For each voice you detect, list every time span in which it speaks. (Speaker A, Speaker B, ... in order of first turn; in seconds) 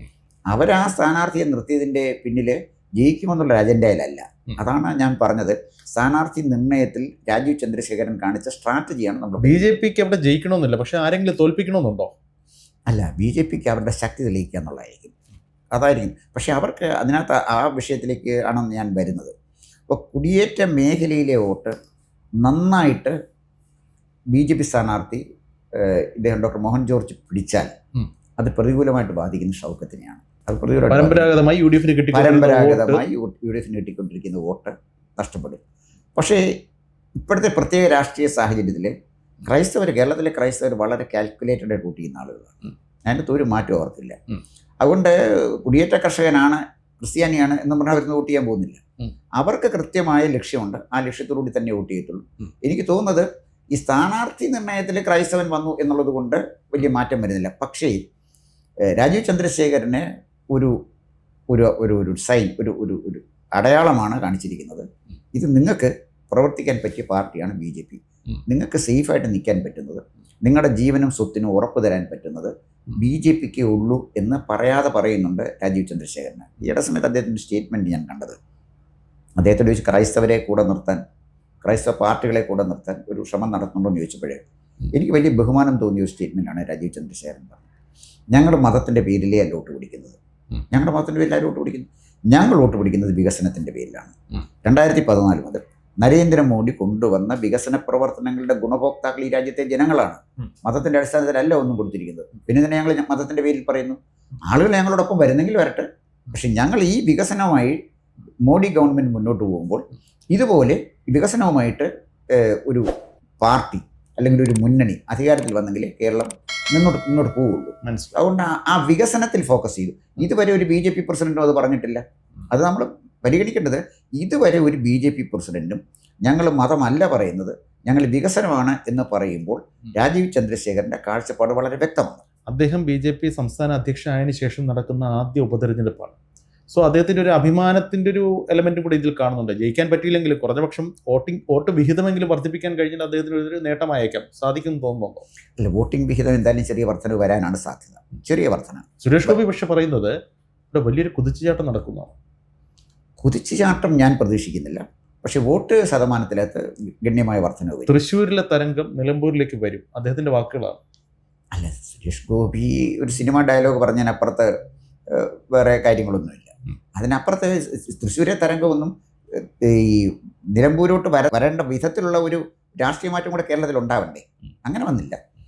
Speaker A: 0.5-9.8, 12.9-15.1, 15.7-19.3, 19.9-21.7, 22.4-23.1, 24.3-25.2, 25.8-27.7, 28.4-31.3, 32.1-35.6, 36.2-36.4, 37.2-38.9, 39.5-44.2, 44.8-48.8, 49.4-58.0, 59.0-60.7, 61.5-78.4, 79.4-81.0, 81.6-84.4, 84.9-87.6, 88.3-90.2, 90.7-107.8, 108.4-112.9, 113.4-132.2, 145.6-149.4, 153.2-157.9, 161.5-164.5, 165.1-175.2
Speaker B: 9.4-12.1, 30.9-33.0, 117.8-118.1, 132.5-136.2, 136.7-145.2, 149.0-150.1, 150.7-152.2, 157.9-160.8